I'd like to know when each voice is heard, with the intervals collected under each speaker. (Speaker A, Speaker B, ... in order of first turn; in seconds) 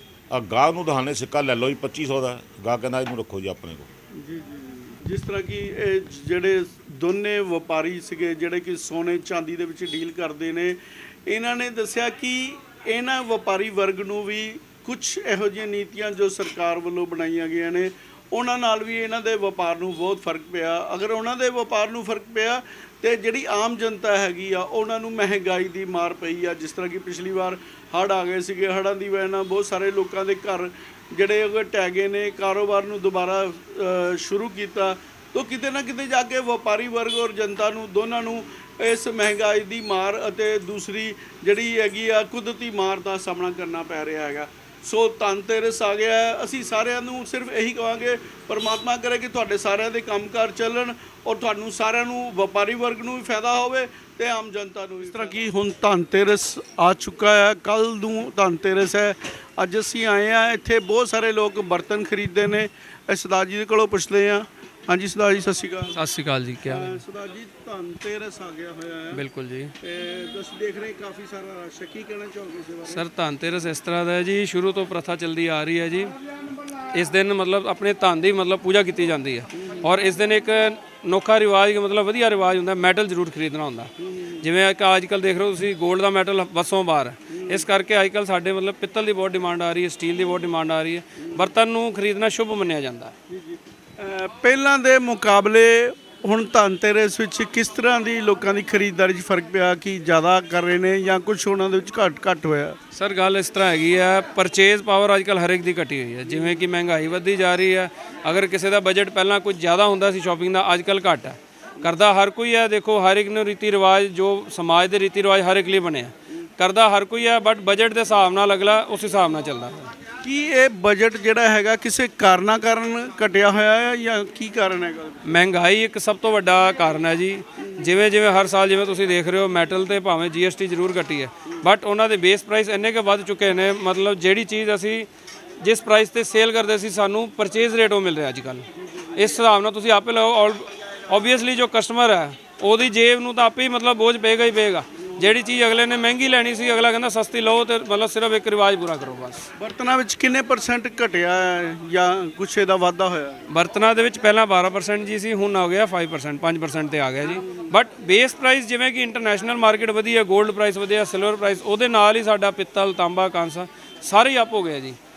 Speaker A: 0.3-3.9
Speaker B: 4.1-66.0, 66.6-69.2, 69.8-73.0, 84.0-84.4, 87.3-87.6, 93.3-102.8, 120.2-125.3, 149.6-153.5, 157.3-157.7
Speaker C: 65.9-67.0, 69.1-69.7, 72.9-76.1, 76.9-93.1, 102.9-119.9, 125.2-135.1, 135.6-149.4, 153.5-165.0